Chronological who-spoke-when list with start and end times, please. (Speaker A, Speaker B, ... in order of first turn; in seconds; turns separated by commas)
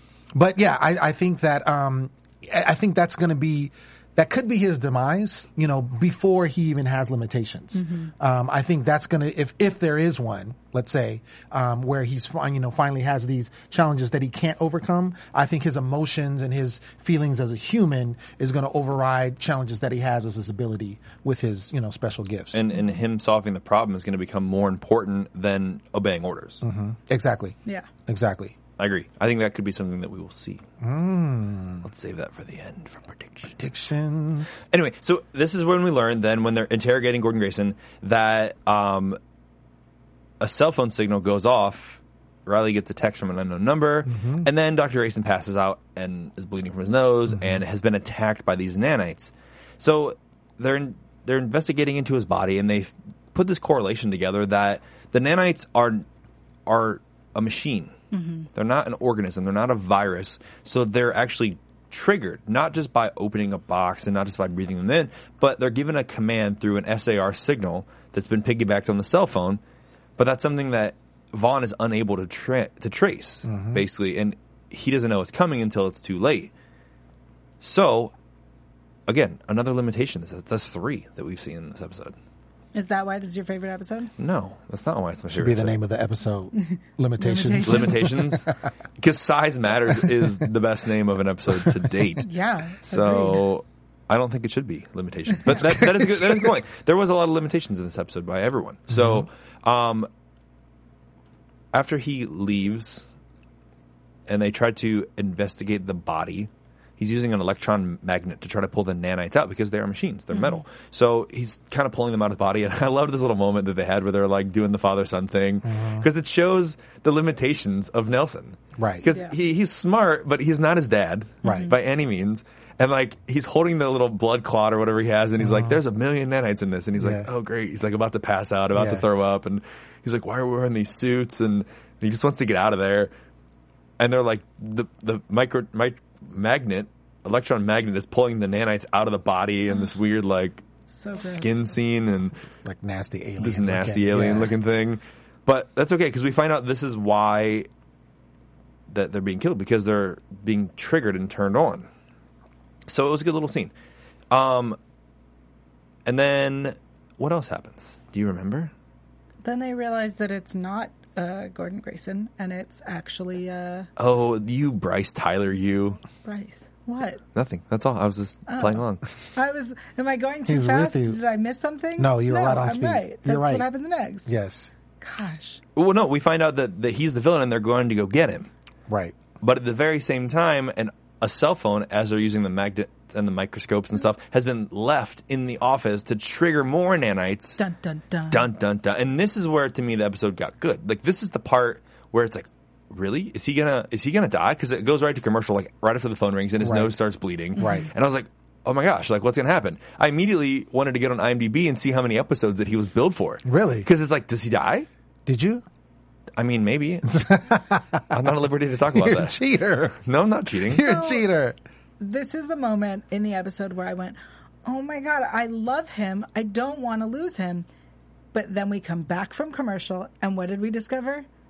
Speaker A: 0.3-22.6, Speaker B: 7.7-8.1, Speaker C: 22.5-26.6, Speaker A: 26.6-27.6, Speaker A: 28.1-28.6, Speaker C: 28.8-30.6, Speaker A: 30.8-31.9, Speaker C: 31.8-33.5, Speaker A: 33.6-34.6, Speaker C: 34.7-39.2, Speaker C: 40.4-56.0, Speaker A: 44.1-44.5, Speaker C: 56.7-57.9, Speaker B: 58.1-58.5, Speaker C: 58.5-69.6, Speaker C: 70.2-76.5, Speaker A: 73.5-73.8, Speaker C: 77.6-78.1, Speaker C: 79.1-82.2, Speaker B: 82.7-84.1, Speaker C: 84.2-85.8, Speaker A: 85.3-88.4, Speaker B: 86.6-88.1, Speaker C: 87.7-92.3, Speaker B: 92.2-93.5, Speaker C: 92.8-100.1, Speaker A: 95.5-96.5, Speaker A: 98.9-99.2, Speaker C: 101.7-103.1, Speaker C: 104.3-133.1, Speaker B: 110.3-110.6, Speaker A: 115.6-116.1, Speaker A: 118.8-119.1, Speaker B: 121.4-121.7, Speaker A: 121.4-121.7, Speaker A: 125.4-125.8, Speaker A: 127.0-127.3, Speaker A: 128.7-129.0, Speaker C: 134.0-140.6, Speaker B: 140.9-141.6, Speaker C: 141.2-142.4, Speaker A: 142.6-144.6, Speaker C: 143.4-147.7, Speaker C: 148.9-151.9, Speaker C: 152.9-153.7, Speaker C: 154.3-154.8, Speaker C: 156.1-158.7, Speaker B: 159.4-163.9, Speaker C: 164.0-166.0, Speaker B: 166.2-167.2, Speaker C: 167.3-169.0, Speaker B: 168.5-168.8, Speaker B: 169.3-174.3, Speaker A: 170.5-171.2, Speaker A: 172.0-173.7, Speaker A: 174.3-174.7, Speaker B: 175.0-175.6, Speaker C: 175.8-178.5, Speaker A: 178.9-179.2, Speaker C: 179.4-187.6, Speaker B: 187.6-188.5, Speaker C: 188.3-204.9, Speaker A: 196.6-196.9, Speaker B: 197.6-197.9, Speaker A: 197.6-197.9, Speaker A: 203.5-203.9, Speaker A: 205.3-205.6, Speaker C: 206.4-207.2, Speaker A: 207.1-208.2, Speaker C: 208.1-209.4, Speaker A: 208.9-210.0, Speaker C: 210.1-210.8, Speaker A: 210.7-211.6, Speaker B: 210.8-211.3, Speaker B: 212.0-217.7, Speaker B: 218.3-221.3